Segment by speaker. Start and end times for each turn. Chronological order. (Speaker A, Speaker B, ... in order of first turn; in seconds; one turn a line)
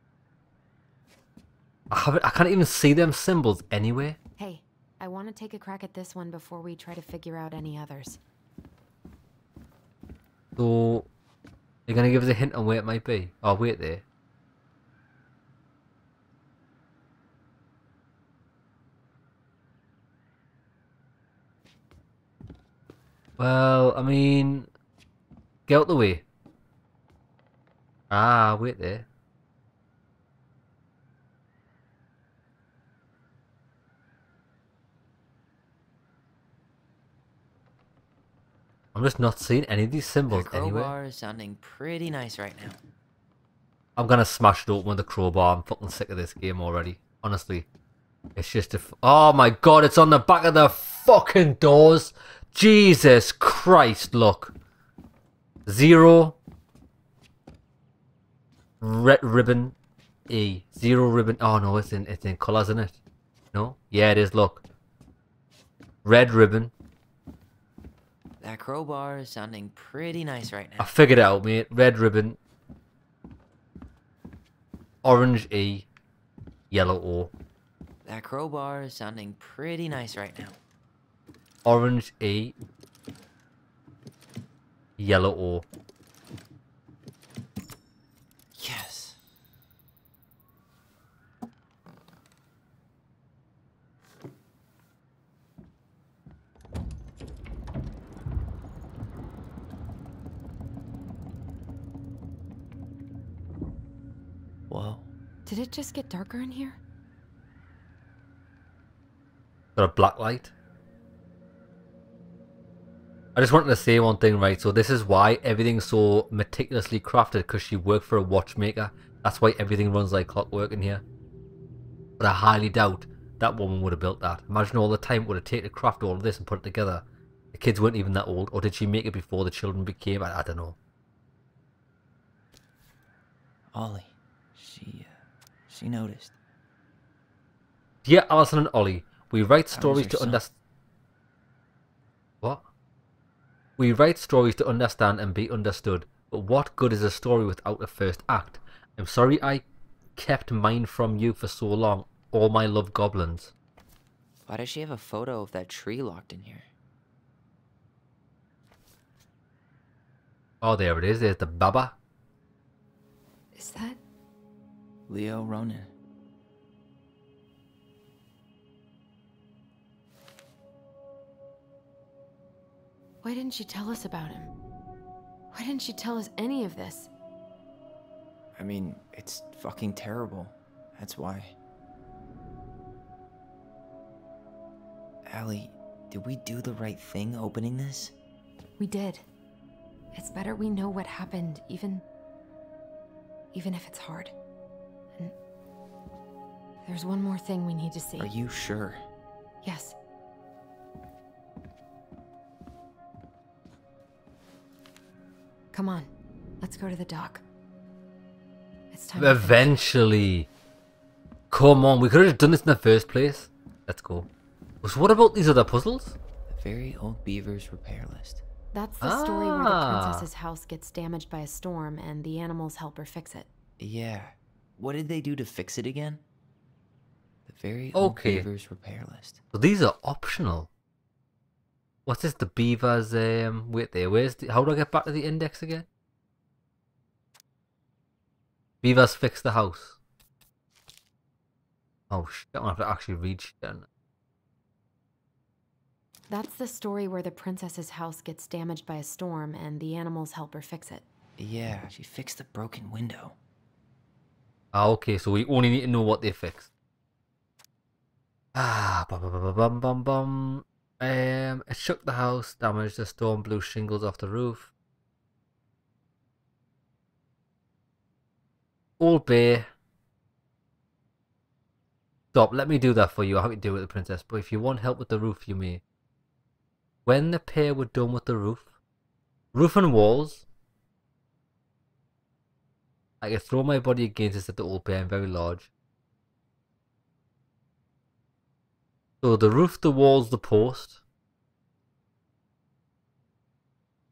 Speaker A: 1.9-4.2
Speaker B: 4.4-8.2
Speaker A: 10.6-11.1
Speaker A: 11.9-14.0
Speaker A: 23.4-24.7
Speaker A: 25.7-26.2
Speaker A: 28.1-29.1
Speaker A: 38.9-40.9
Speaker C: 40.3-42.8
Speaker A: 44.0-47.7
Speaker A: 48.4-54.5
Speaker A: 55.6-56.4
Speaker A: 58.8-59.8
Speaker A: 60.3-63.0
Speaker A: 63.5-64.6
Speaker A: 66.0-66.7
Speaker C: 68.4-70.9
Speaker A: 70.8-72.4
Speaker A: 75.0-75.9
Speaker A: 76.7-77.3
Speaker C: 78.0-80.6
Speaker A: 81.6-82.5
Speaker A: 85.0-85.7
Speaker C: 88.5-89.2
Speaker C: 104.7-105.1
Speaker B: 105.5-106.8
Speaker A: 109.8-110.5
Speaker A: 113.3-121.0
Speaker A: 122.2-130.8
Speaker C: 133.7-135.1
Speaker C: 135.7-136.3
Speaker A: 138.0-140.5
Speaker C: 139.7-140.4
Speaker A: 143.8-149.6
Speaker A: 150.2-153.5
Speaker C: 154.5-156.7
Speaker A: 160.6-161.9
Speaker B: 163.5-164.0
Speaker C: 165.1-165.9
Speaker B: 173.2-174.5
Speaker B: 175.5-177.1
Speaker C: 178.6-181.5
Speaker C: 185.3-188.1
Speaker B: 188.8-189.2
Speaker B: 190.1-192.0
Speaker B: 193.5-194.3
Speaker B: 196.8-198.3
Speaker C: 198.2-199.0
Speaker B: 199.6-199.9
Speaker B: 205.7-206.1
Speaker B: 206.6-207.4
Speaker B: 208.9-209.7
Speaker A: 209.2-210.5
Speaker A: 211.5-214.3
Speaker A: 214.8-216.2
Speaker C: 216.5-218.4
Speaker B: 218.7-223.5
Speaker A: 219.0-220.3
Speaker C: 223.8-226.2
Speaker C: 227.5-229.4
Speaker A: 227.9-228.4
Speaker A: 229.5-230.7
Speaker A: 232.1-235.9
Speaker A: 238.8-240.0
Speaker A: 242.1-243.8
Speaker B: 246.3-251.0
Speaker C: 251.4-253.4
Speaker A: 254.7-256.7
Speaker A: 258.5-264.7
Speaker A: 269.0-269.7
Speaker A: 272.3-275.8
Speaker A: 277.0-278.7
Speaker A: 279.5-280.4
Speaker A: 283.2-285.7
Speaker A: 289.2-291.0